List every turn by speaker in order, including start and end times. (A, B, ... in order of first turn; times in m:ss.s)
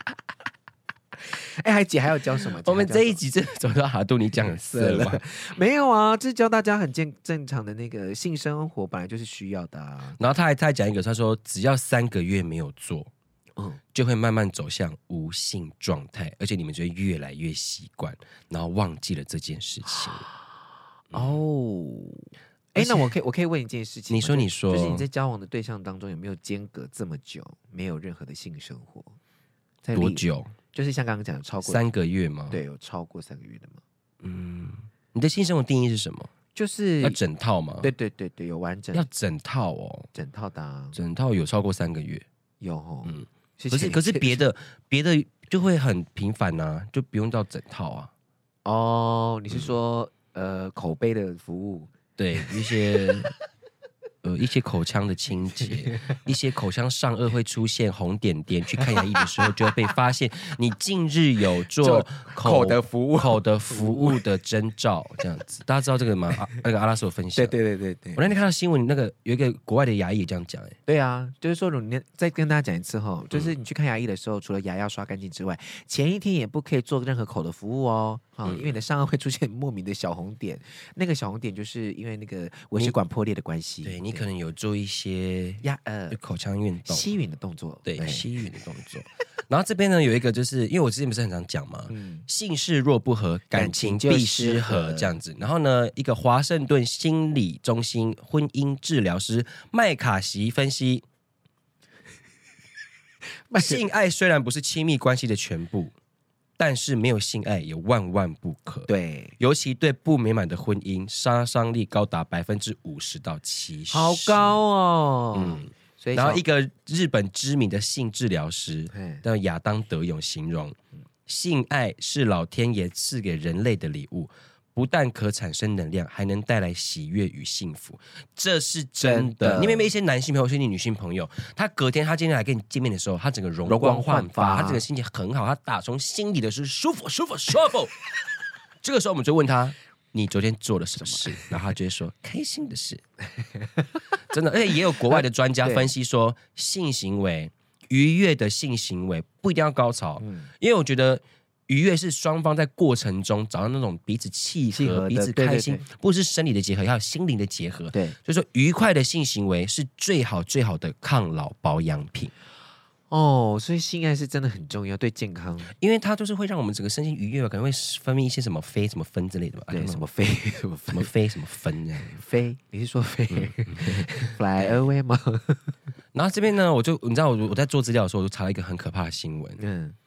0:01.2-0:03.2 A
0:02.6-0:05.2 B
0:04.4-0:10.2 A
0:10.2-0:13.1 B
0:13.9-0:20.3 B
0:21.1-0:21.4 B
0:21.1-0:29.2 A
0:22.8-0:23.0 B
0:24.1-0:25.0 B
0:29.8-0:31.8 A
0:29.9-0:30.5 B
0:31.6-0:32.6 B
0:32.5-0:33.8 A
0:34.2-0:36.3 B
0:36.5-0:37.2 A
0:37.0-0:37.9 B
0:37.8-0:39.0 A
0:38.9-0:40.1 B
0:40.1-0:41.0 A
0:40.9-0:42.2 B
0:42.6-0:44.4 A
0:43.1-0:48.1 B
0:48.6-0:53.3 A
0:52.2-0:53.3 B
0:54.2-1:07.6 B
0:58.8-0:59.5 A
1:01.8-1:04.2 A
1:07.3-1:08.3 A
1:08.1-1:10.8 B
1:10.9-1:24.3 A
1:23.8-1:27.0 B
1:25.6-1:26.2 A
1:26.8-1:28.3 A
1:27.8-1:41.0 B
1:31.9-1:32.2 A
1:33.5-1:35.2 A
1:43.5-1:43.8 A
1:43.6-1:45.9 B
1:46.6-1:54.6 B
1:48.9-1:49.4 A
1:53.9-1:56.4 A
1:55.3-2:17.9 B
1:58.9-1:59.2 A
2:09.0-2:09.9 A
2:13.6-2:14.8 A
2:18.8-2:23.0 B
2:21.0-2:21.3 A
2:24.3-2:42.3 B
2:25.1-2:25.9 A
2:30.2-2:30.5 A
2:34.7-2:35.8 A
2:43.1-2:45.7 A
2:45.7-2:50.0 B
2:49.7-2:51.1 A
2:50.9-2:52.2 B
2:52.0-2:55.7 A
2:53.3-2:54.1 B
2:56.1-2:59.6 B
2:59.6-3:00.0 A